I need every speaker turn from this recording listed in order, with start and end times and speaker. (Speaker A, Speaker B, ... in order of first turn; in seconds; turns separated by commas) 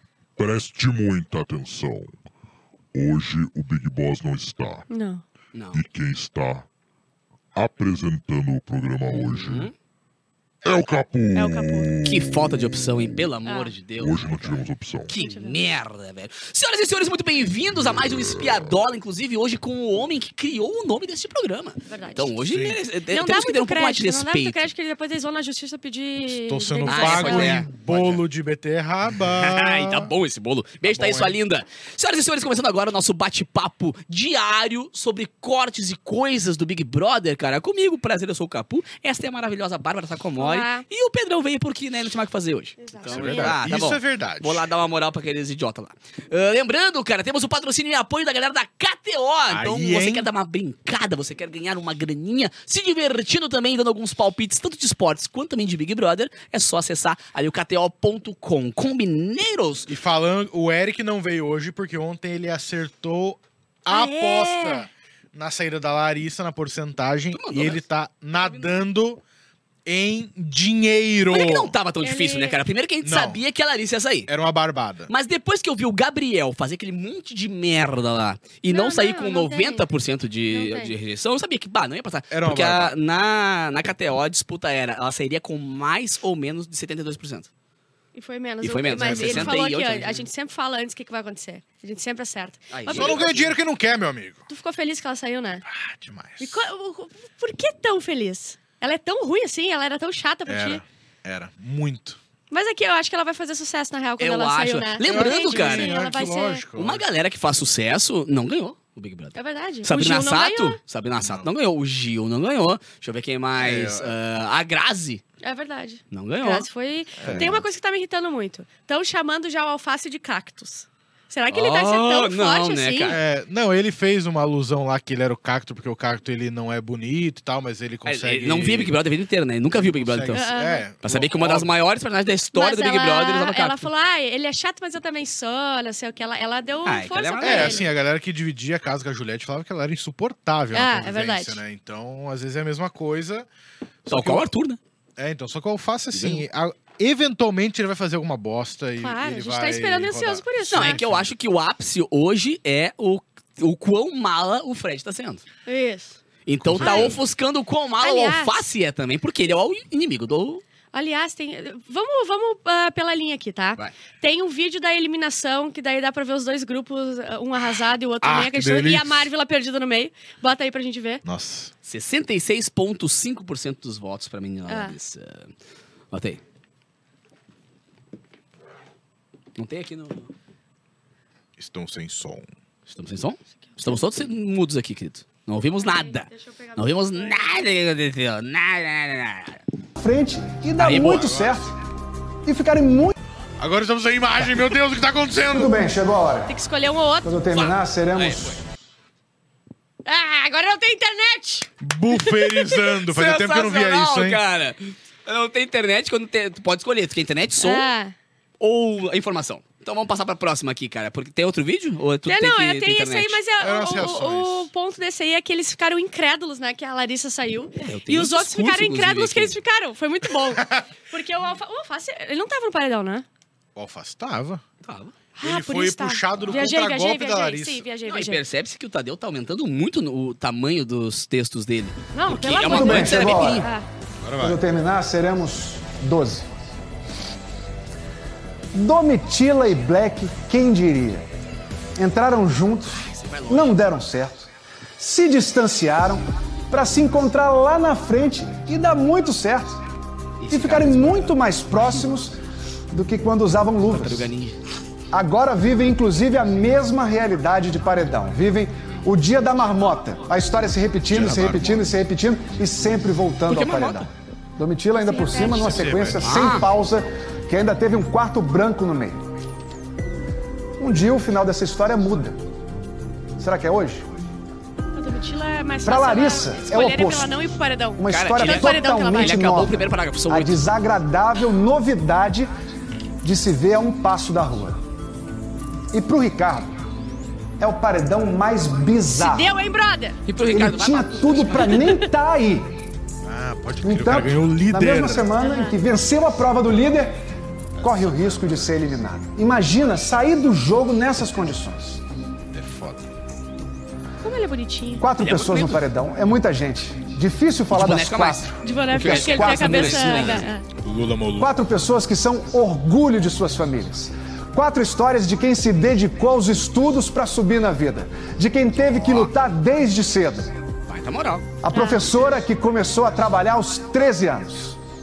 Speaker A: 0.4-2.2, Speaker A: 3.0-4.9, Speaker B: 4.9-5.2, Speaker C: 5.5-5.8, Speaker A: 5.7-6.7, Speaker A: 7.5-9.7, Speaker C: 9.4-9.7, Speaker A: 10.7-13.2, Speaker B: 11.3-12.0, Speaker C: 12.1-24.7, Speaker B: 13.5-13.7, Speaker A: 14.0-15.1, Speaker B: 15.2-15.6, Speaker A: 17.8-18.8, Speaker B: 21.9-22.3, Speaker D: 22.4-22.8, Speaker B: 23.1-27.7, Speaker D: 26.3-30.1, Speaker C: 26.9-28.2, Speaker C: 29.2-59.9, Speaker D: 30.9-31.4, Speaker B: 40.4-40.9, Speaker B: 42.8-43.6, Speaker D: 43.1-44.7, Speaker D: 49.5-50.3, Speaker D: 59.9-69.2, Speaker B: 63.9-64.9, Speaker C: 67.3-67.8, Speaker C: 68.4-68.7, Speaker D: 69.9-71.7, Speaker C: 71.3-74.3, Speaker B: 72.0-72.6, Speaker D: 73.0-73.4, Speaker D: 74.3-75.1, Speaker C: 75.1-87.5, Speaker B: 78.7-79.8, Speaker B: 80.5-81.0, Speaker D: 82.3-83.0, Speaker B: 88.2-93.2, Speaker C: 88.6-90.3, Speaker D: 88.9-89.6, Speaker C: 92.7-93.6, Speaker D: 92.9-94.5, Speaker B: 94.5-95.6, Speaker D: 95.7-96.6, Speaker B: 96.4-100.8, Speaker D: 100.5-102.2, Speaker B: 102.5-106.6, Speaker C: 104.2-106.1, Speaker D: 105.0-107.1, Speaker C: 106.8-115.2, Speaker B: 109.3-110.8, Speaker D: 111.2-111.5, Speaker D: 113.6-114.1, Speaker B: 115.4-123.2, Speaker C: 116.1-116.7, Speaker D: 117.2-117.6, Speaker C: 121.5-123.2, Speaker D: 123.1-128.9, Speaker C: 128.1-130.5, Speaker D: 129.8-131.7, Speaker B: 130.3-130.8, Speaker C: 131.0-133.9, Speaker B: 132.5-137.8, Speaker C: 136.9-137.9, Speaker D: 137.4-143.5, Speaker B: 140.7-141.6, Speaker D: 144.1-144.5, Speaker C: 144.1-144.8, Speaker D: 145.2-151.3, Speaker C: 146.1-146.4, Speaker B: 149.0-151.0, Speaker C: 150.7-155.4, Speaker B: 155.7-156.2, Speaker C: 156.5-160.6, Speaker D: 156.6-157.2, Speaker B: 156.8-157.2, Speaker B: 158.0-158.6, Speaker B: 160.9-171.2, Speaker D: 168.2-169.3, Speaker D: 171.2-171.7, Speaker C: 171.9-175.5, Speaker B: 174.7-174.9, Speaker C: 176.1-176.4, Speaker C: 179.6-180.3, Speaker D: 181.6-182.5, Speaker C: 182.9-189.6, Speaker B: 185.8-187.6, Speaker E: 190.0-191.7, Speaker C: 190.8-191.3, Speaker D: 191.0-191.7, Speaker E: 192.5-193.1, Speaker D: 193.6-195.8, Speaker E: 195.5-196.5, Speaker B: 196.5-197.4, Speaker E: 197.2-198.6, Speaker C: 197.5-198.6, Speaker B: 200.1-202.8, Speaker D: 201.8-204.4, Speaker C: 203.1-207.9, Speaker B: 207.6-208.1, Speaker C: 208.6-213.4, Speaker B: 212.3-223.2, Speaker D: 213.6-214.7, Speaker C: 217.8-219.6, Speaker D: 223.8-224.6, Speaker C: 224.8-225.1, Speaker B: 225.4-228.4, Speaker D: 225.4-227.8, Speaker C: 228.1-233.7, Speaker B: 232.1-233.9, Speaker E: 232.6-233.7, Speaker D: 234.2-234.6, Speaker E: 234.4-236.5, Speaker E: 238.7-241.2, Speaker E: 242.0-244.5, Speaker C: 243.0-243.8, Speaker E: 245.0-249.8, Speaker C: 250.4-251.3, Speaker E: 250.5-252.4, Speaker E: 252.9-254.3, Speaker C: 253.9-254.6, Speaker E: 255.1-269.2, Speaker D: 261.1-261.9, Speaker C: 263.5-264.1, Speaker B: 265.0-265.7, Speaker D: 265.4-266.5, Speaker C: 266.2-266.7, Speaker E: 270.8-272.4, Speaker E: 273.4-274.1, Speaker B: 274.9-279.5, Speaker E: 275.8-282.5, Speaker C: 278.1-280.6, Speaker E: 283.2-284.8, Speaker E: 285.9-286.7, Speaker E: 287.6-289.5, Speaker B: 289.1-290.2, Speaker C: 290.3-291.9, Speaker E: 290.5-292.7, Speaker D: 293.2-295.3, Speaker E: 293.8-297.1, Speaker B: 295.4-295.8, Speaker E: 297.8-302.0, Speaker D: 297.8-298.7, Speaker D: 302.5-303.1, Speaker B: 304.2-305.1, Speaker E: 305.0-310.4, Speaker C: 305.2-305.8, Speaker C: 307.7-310.5, Speaker B: 308.6-310.6, Speaker D: 310.8-311.5, Speaker E: 311.4-320.5, Speaker D: 319.0-319.3, Speaker C: 320.9-321.5, Speaker E: 321.6-324.8, Speaker B: 321.7-322.1